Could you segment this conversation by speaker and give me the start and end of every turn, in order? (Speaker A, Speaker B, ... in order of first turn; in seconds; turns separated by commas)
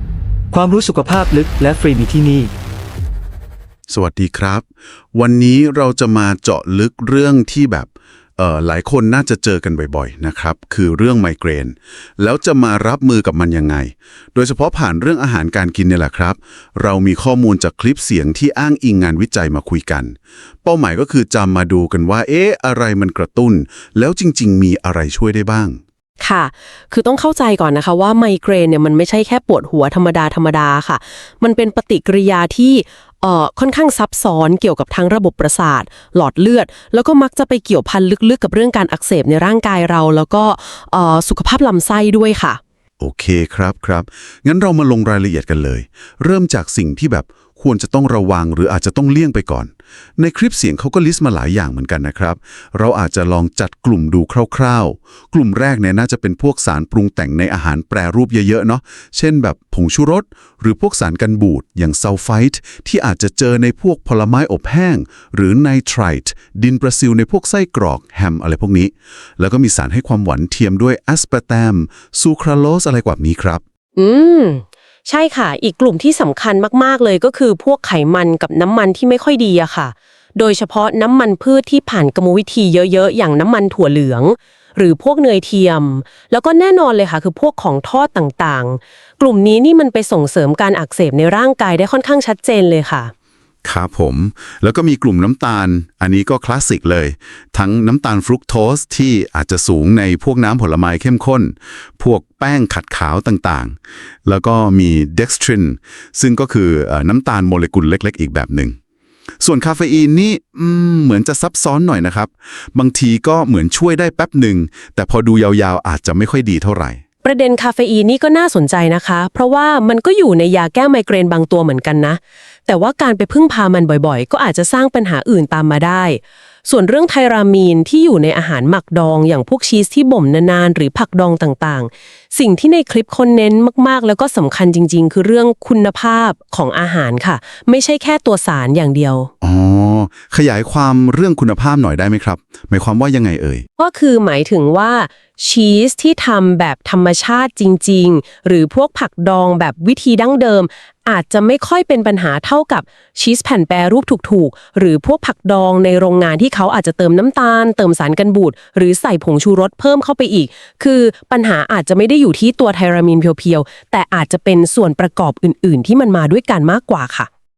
Speaker A: 0.5-2.5, Speaker B: 3.9-4.6, Speaker B: 5.1-25.8, Speaker C: 26.2-42.6, Speaker B: 43.0-73.6, Speaker C: 74.0-93.1, Speaker B: 93.6-108.8, Speaker B: 109.4-117.0, Speaker C: 117.2-139.3, Speaker B: 139.4-143.6, Speaker C: 143.8-167.3